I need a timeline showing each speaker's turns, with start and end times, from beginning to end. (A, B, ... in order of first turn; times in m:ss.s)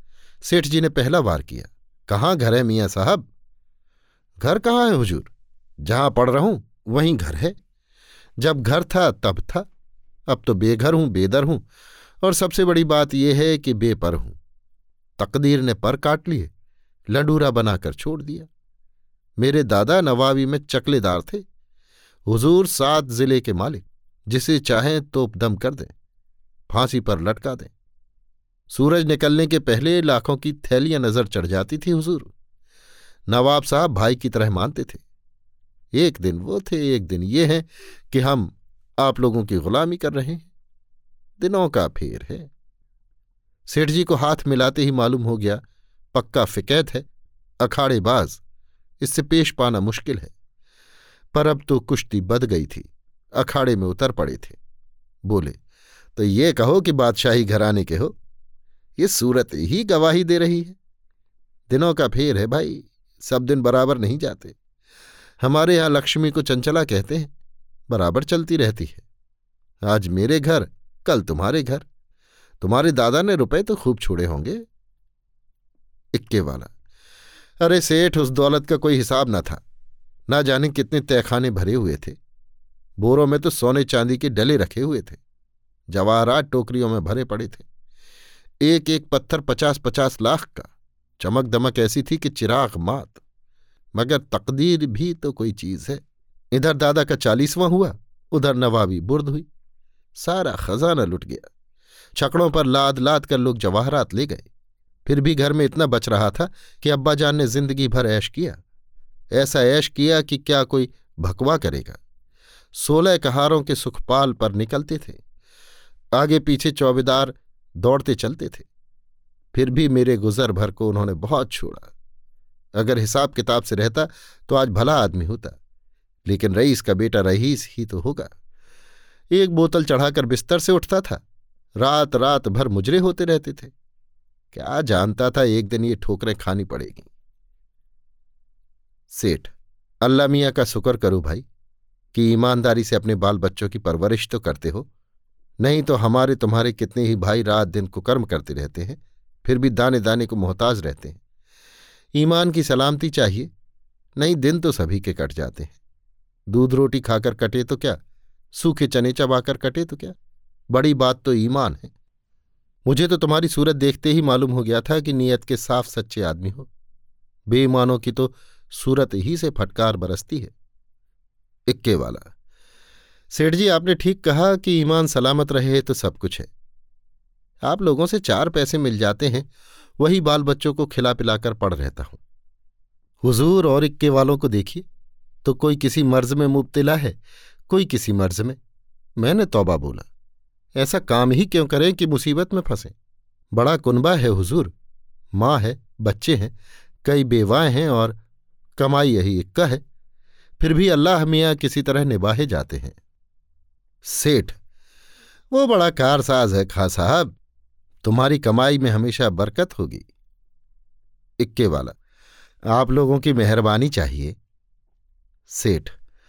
0:00.4-0:03.3 A
0:04.4-0:05.3 A
0:05.8-0:07.5 A
0:08.4-0:09.6 A
0:10.3-0:11.6 A
0:12.2-0:14.4 A
0:15.2-0:16.5 A
0:17.1-0:18.5 A
0:19.4-0:21.4 A
0:22.2-0:25.9 A
0:26.7-0:27.7 A
0:28.7-0:32.3 A
0:33.3-0:35.0 A
0:35.9-0:40.5 A
0:41.4-0:42.5 A
0:43.7-0:45.6 A
0:46.1-0:47.0 A
0:47.6-0:48.4 A
0:49.0-0:50.3 A
0:51.3-0:54.6 A
0:55.2-0:55.6 A
0:56.2-0:58.2 A
0:59.0-1:00.8 A
1:01.7-1:04.6 A
1:05.4-1:07.3 A
1:07.9-1:09.0 A
1:09.8-1:11.8 A
1:12.6-1:14.6 A
1:16.1-1:16.7 A
1:17.6-1:19.6 A
1:20.3-1:22.2 A
1:23.0-1:25.2 A
1:25.9-1:27.6 A
1:28.6-1:33.2 A
1:33.9-1:36.0 A
1:36.5-1:39.5 A
1:40.2-1:41.5 A
1:42.2-1:44.5 A
1:45.0-1:48.6 A
1:49.3-1:52.0 A
1:52.7-1:55.2 A
1:56.1-1:58.7 A
1:59.5-2:01.9 A
2:02.8-2:05.6 A
2:06.2-2:08.3 A
2:09.3-2:11.2 A
2:11.8-2:13.7 A
2:14.5-2:17.1 A
2:19.1-2:21.4 A
2:22.1-2:24.9 A
2:25.6-2:31.2 A
2:32.1-2:33.5 A
2:34.2-2:35.8 A
2:36.5-2:38.0 A
2:38.5-2:40.1 A
2:40.7-2:41.9 A
2:42.8-2:46.7 A
2:47.5-2:50.5 A
2:51.7-2:52.3 A
2:53.3-2:56.5 A
2:57.6-3:02.2 A
3:03.2-3:04.8 A
3:05.4-3:08.6 A
3:09.2-3:10.1 A
3:10.8-3:12.9 A
3:13.5-3:14.7 A
3:15.3-3:16.5 A
3:17.0-3:18.2 A
3:18.8-3:19.8 A
3:20.6-3:23.0 A
3:24.0-3:24.6 A
3:25.5-3:27.3 A
3:28.0-3:30.1 A
3:31.4-3:31.9 A
3:32.7-3:34.4 A
3:35.5-3:35.9 A